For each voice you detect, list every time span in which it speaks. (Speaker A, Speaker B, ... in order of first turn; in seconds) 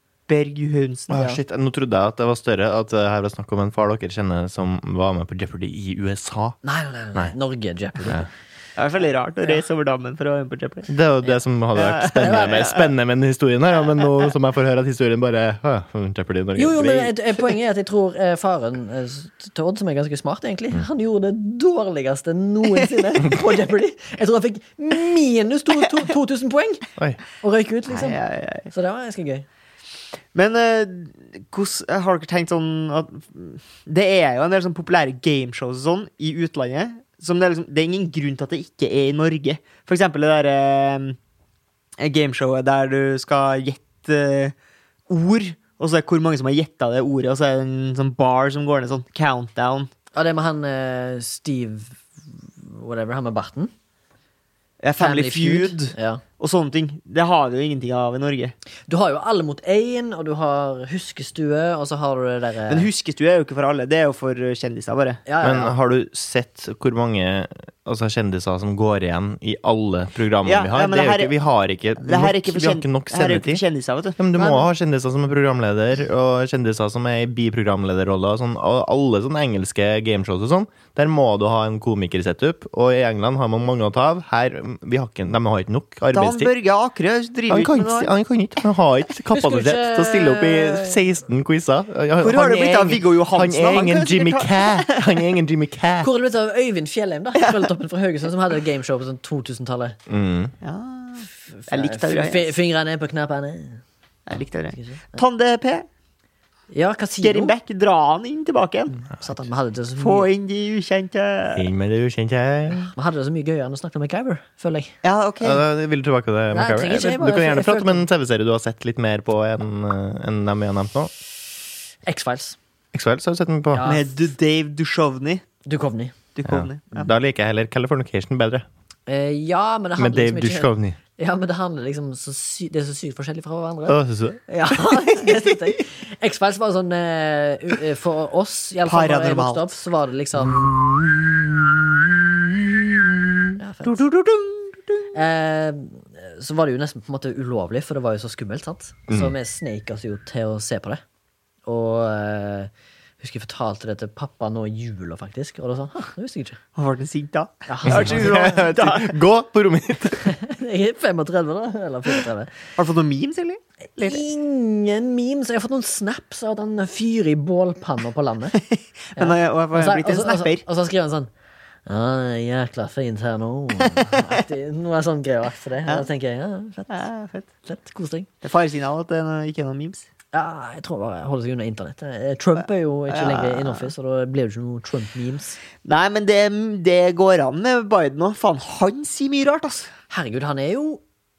Speaker A: 0.3-1.2, 8.8-10.9, 11.7-12.9, 27.9-28.7, 30.3-41.2, 42.0-44.5, 45.1-49.9, 54.8-58.5, 62.7-65.2, 70.4-71.3, 72.0-74.3, 86.1-88.1, 92.2-95.2, 97.4-97.7, 100.6-102.5, 104.3-105.8, 107.2-109.0, 110.0-111.7, 115.0-115.6, 123.8-125.4, 126.3-127.1, 135.1-135.5, 138.8-139.7, 143.9-144.8, 156.8-159.2, 162.8-164.2, 168.6-170.6, 173.9-174.3, 176.9-177.5, 178.4-180.1, 183.1-183.9, 185.8-189.9
Speaker B: 1.1-6.6, 10.9-17.1, 65.4-73.6, 74.2-86.5, 87.5-96.1, 100.1-100.5, 111.5-112.9, 115.4-121.1, 122.9-123.8, 126.5-128.7, 130.0-131.0, 133.9-134.4, 140.5-143.4, 157.8-160.3
Speaker C: 1.1-1.4, 6.6-8.3, 12.2-12.6, 16.6-26.9, 27.4-28.2, 28.7-29.4, 50.1-53.7, 55.0-56.2, 58.9-62.9, 65.2-65.8, 89.3-91.0, 96.0-100.0, 101.5-103.8, 104.7-105.1, 106.7-107.5, 108.9-110.3, 112.9-115.0, 116.5-118.1, 122.0-122.6, 123.7-124.3, 125.6-126.1, 129.1-140.7, 143.6-144.0, 145.1-151.0, 151.7-156.6, 157.7-158.6, 160.2-162.6, 164.0-168.6, 169.2-171.3, 171.8-177.1, 177.6-178.3, 180.3-185.6, 190.1-191.0